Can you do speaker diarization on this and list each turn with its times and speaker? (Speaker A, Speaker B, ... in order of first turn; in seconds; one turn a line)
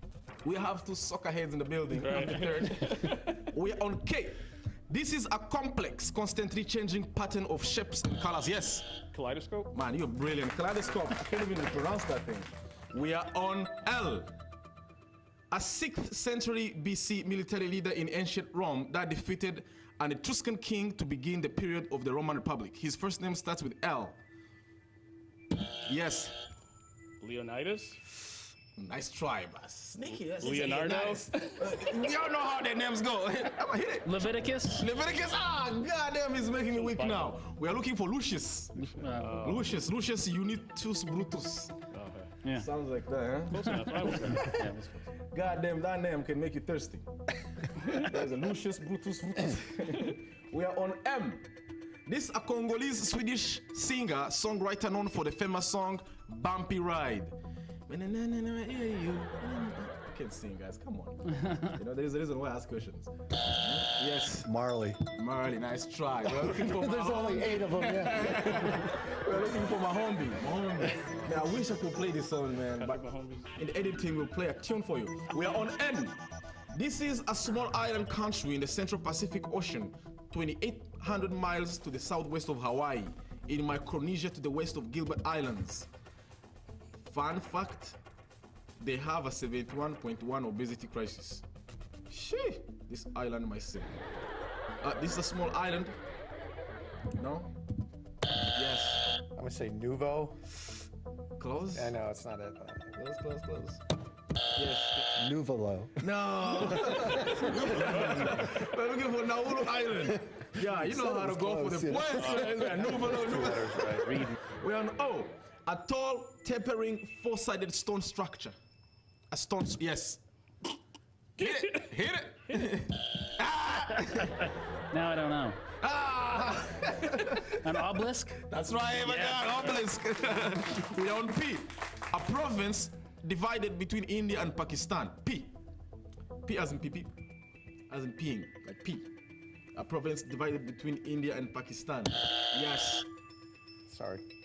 Speaker A: 0.4-9.0
Speaker B: 2.0-3.4
Speaker B: 9.1-9.7
Speaker A: 9.7-14.3
Speaker A: 15.5-24.2
Speaker A: 25.9-26.4
Speaker B: 27.2-28.0
Speaker A: 28.8-41.9
Speaker B: 30.1-31.8
Speaker C: 34.0-34.9
Speaker B: 36.7-37.4
Speaker C: 38.8-39.6
Speaker B: 39.2-39.8
Speaker B: 41.9-42.3
Speaker A: 42.5-44.6
Speaker B: 43.5-44.6
Speaker C: 43.7-45.0
Speaker A: 45.3-47.1
Speaker A: 47.9-51.5
Speaker A: 52.1-57.3
Speaker A: 57.9-64.5
Speaker D: 64.4-65.0
Speaker A: 65.2-76.2
Speaker D: 66.7-68.5
Speaker E: 66.8-67.5
Speaker B: 72.8-73.4
Speaker A: 76.7-85.9
Speaker A: 87.0-88.0
Speaker A: 88.8-91.4
Speaker A: 92.1-93.9
Speaker A: 94.8-96.0
Speaker A: 97.2-97.5
Speaker A: 98.5-99.0
Speaker E: 99.4-100.4
Speaker A: 101.4-102.0
Speaker E: 101.8-103.0
Speaker A: 103.0-103.8
Speaker A: 104.5-105.0
Speaker D: 105.2-106.1
Speaker A: 106.0-118.6
Speaker D: 110.6-112.4
Speaker B: 112.1-113.1
Speaker E: 112.8-114.2
Speaker C: 114.0-114.3
Speaker A: 119.3-120.2
Speaker A: 121.4-124.4
Speaker B: 121.4-121.9
Speaker C: 124.9-125.6
Speaker A: 125.8-127.5
Speaker C: 127.5-128.4
Speaker A: 128.5-135.5
Speaker C: 129.1-129.5
Speaker A: 136.4-137.1
Speaker A: 137.9-139.1
Speaker A: 139.7-143.1
Speaker E: 143.9-144.2